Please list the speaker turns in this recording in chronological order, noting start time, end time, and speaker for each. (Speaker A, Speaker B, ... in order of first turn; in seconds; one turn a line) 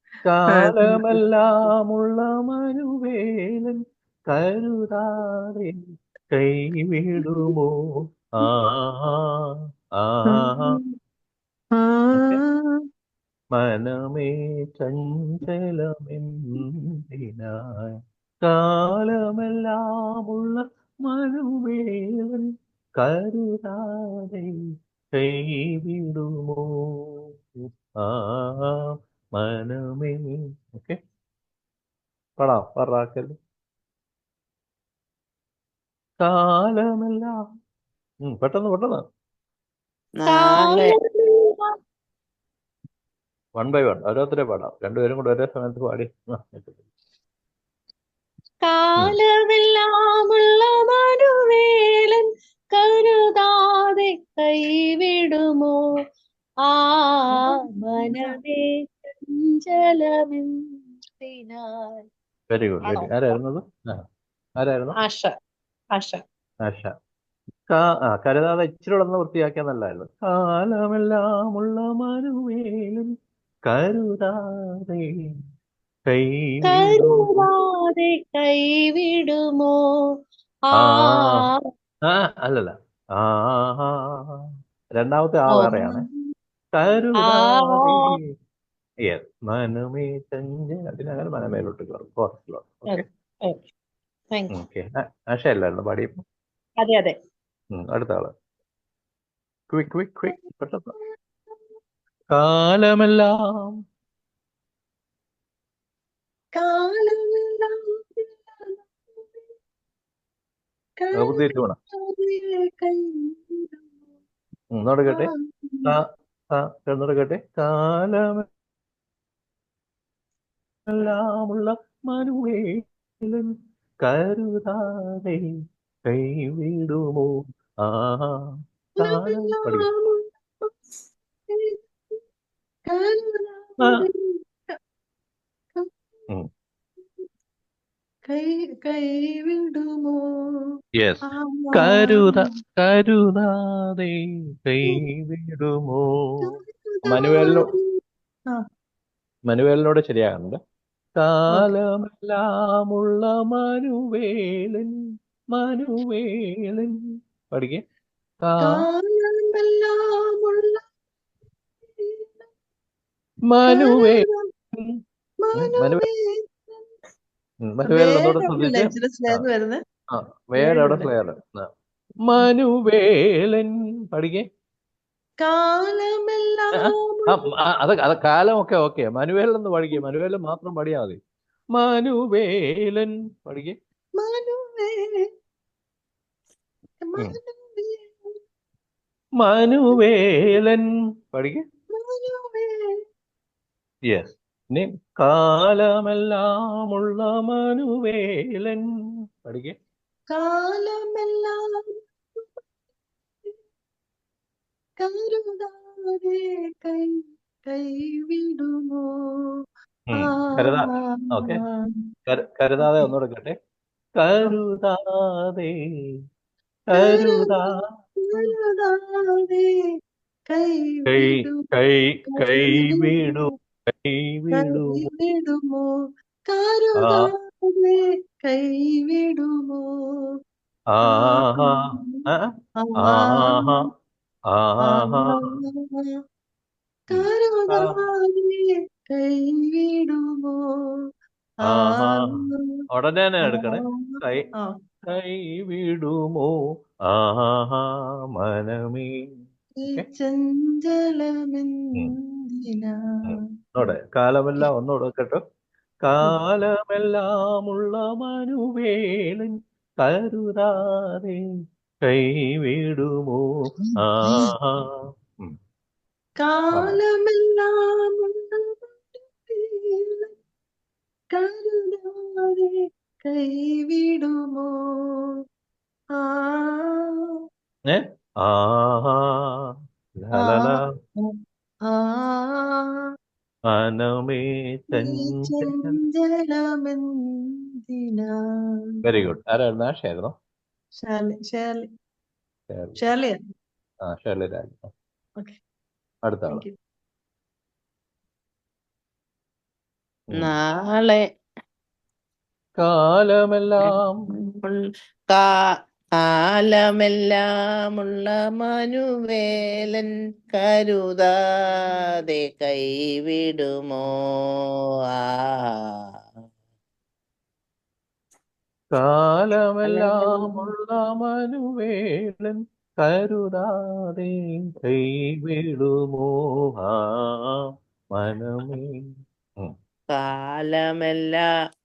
Speaker A: 0.3-5.8
Speaker A: 6.3-9.4
Speaker B: 7.2-7.5
Speaker A: 10.0-10.8
Speaker B: 10.3-10.8
Speaker B: 11.8-12.4
Speaker A: 12.1-12.4
Speaker A: 13.5-24.5
Speaker A: 25.1-27.1
Speaker A: 28.0-28.7
Speaker A: 29.4-31.0
Speaker A: 32.4-33.3
Speaker A: 36.2-37.4
Speaker A: 38.2-39.0
Speaker C: 40.2-41.0
Speaker B: 40.3-41.6
Speaker A: 43.6-46.8
Speaker B: 48.6-55.8
Speaker B: 56.7-60.5
Speaker B: 61.2-62.1
Speaker A: 62.5-64.0
Speaker A: 64.6-65.0
Speaker B: 65.0-65.3
Speaker B: 66.0-66.2
Speaker A: 66.7-66.9
Speaker A: 67.7-73.1
Speaker A: 73.7-75.1
Speaker A: 76.1-77.5
Speaker B: 76.7-79.8
Speaker A: 80.7-81.5
Speaker B: 80.8-81.5
Speaker A: 82.1-84.0
Speaker A: 85.0-86.0
Speaker B: 85.5-86.1
Speaker A: 86.8-88.2
Speaker B: 87.2-88.1
Speaker A: 89.1-93.0
Speaker B: 92.9-93.6
Speaker A: 94.5-96.2
Speaker B: 96.8-97.1
Speaker A: 97.7-98.3
Speaker A: 99.7-100.9
Speaker A: 102.3-103.8
Speaker B: 106.5-109.4
Speaker B: 111.0-114.0
Speaker A: 111.2-111.8
Speaker A: 114.7-115.3
Speaker B: 115.1-116.0
Speaker A: 116.5-118.5
Speaker A: 120.9-123.5
Speaker A: 124.0-125.4
Speaker A: 126.1-128.4
Speaker A: 129.0-129.9
Speaker B: 129.0-130.7
Speaker B: 131.5-132.2
Speaker B: 132.9-134.7
Speaker B: 138.3-140.3
Speaker A: 141.0-144.2
Speaker B: 141.3-142.5
Speaker A: 144.7-146.5
Speaker B: 146.4-147.8
Speaker A: 147.1-147.7
Speaker A: 149.5-150.6
Speaker A: 151.2-154.9
Speaker A: 155.5-156.9
Speaker A: 157.5-157.8
Speaker A: 158.4-158.9
Speaker B: 158.6-160.8
Speaker B: 162.0-162.4
Speaker A: 163.5-164.3
Speaker B: 163.7-164.5
Speaker B: 165.4-166.8
Speaker A: 165.6-166.1
Speaker A: 167.7-169.5
Speaker B: 167.9-169.8
Speaker A: 170.1-171.7
Speaker B: 170.6-171.1
Speaker A: 172.2-174.4
Speaker B: 175.4-177.4
Speaker A: 176.8-181.2
Speaker A: 181.8-183.8
Speaker B: 184.2-185.3
Speaker B: 187.0-188.3
Speaker A: 189.4-191.6
Speaker B: 191.9-192.9
Speaker A: 194.1-198.8
Speaker A: 199.4-199.8
Speaker B: 200.3-202.6
Speaker B: 205.0-209.4
Speaker A: 210.1-211.6
Speaker B: 210.2-212.0
Speaker A: 212.3-213.6
Speaker B: 212.8-213.1
Speaker A: 214.2-215.7
Speaker A: 216.9-217.8
Speaker B: 217.0-217.7
Speaker B: 218.2-219.7
Speaker B: 220.5-221.7
Speaker A: 221.1-225.1
Speaker B: 222.3-223.5
Speaker B: 224.6-225.9
Speaker B: 226.5-229.9
Speaker A: 227.0-227.3
Speaker A: 230.9-232.5
Speaker B: 231.0-232.2
Speaker B: 232.8-233.9
Speaker A: 233.0-233.9
Speaker A: 234.5-235.4
Speaker B: 234.8-236.1
Speaker A: 237.1-238.0
Speaker B: 237.1-240.6
Speaker A: 241.6-242.4
Speaker B: 241.7-242.7
Speaker A: 242.9-244.5
Speaker B: 243.4-244.8
Speaker A: 245.1-246.6
Speaker A: 247.1-249.1
Speaker B: 249.8-253.4
Speaker A: 253.3-255.4
Speaker A: 256.0-261.4
Speaker A: 262.1-263.4
Speaker A: 264.0-264.9
Speaker B: 266.4-270.3
Speaker A: 266.7-267.0
Speaker B: 271.3-275.2
Speaker B: 276.2-277.2
Speaker A: 277.9-279.4
Speaker A: 280.2-280.9
Speaker B: 280.4-281.4
Speaker B: 281.9-282.8
Speaker A: 283.7-285.9
Speaker B: 285.0-287.1
Speaker B: 287.9-289.2
Speaker A: 289.1-290.3
Speaker B: 291.0-291.9
Speaker A: 292.7-293.0
Speaker B: 293.0-293.4
Speaker A: 294.1-294.9
Speaker A: 296.2-296.6
Speaker B: 296.5-296.8
Speaker C: 300.3-301.2
Speaker A: 302.8-304.2
Speaker C: 303.9-304.8
Speaker C: 306.2-311.3
Speaker C: 312.2-316.0
Speaker A: 318.9-327.6
Speaker C: 319.8-320.7
Speaker A: 328.1-328.9
Speaker C: 330.1-331.5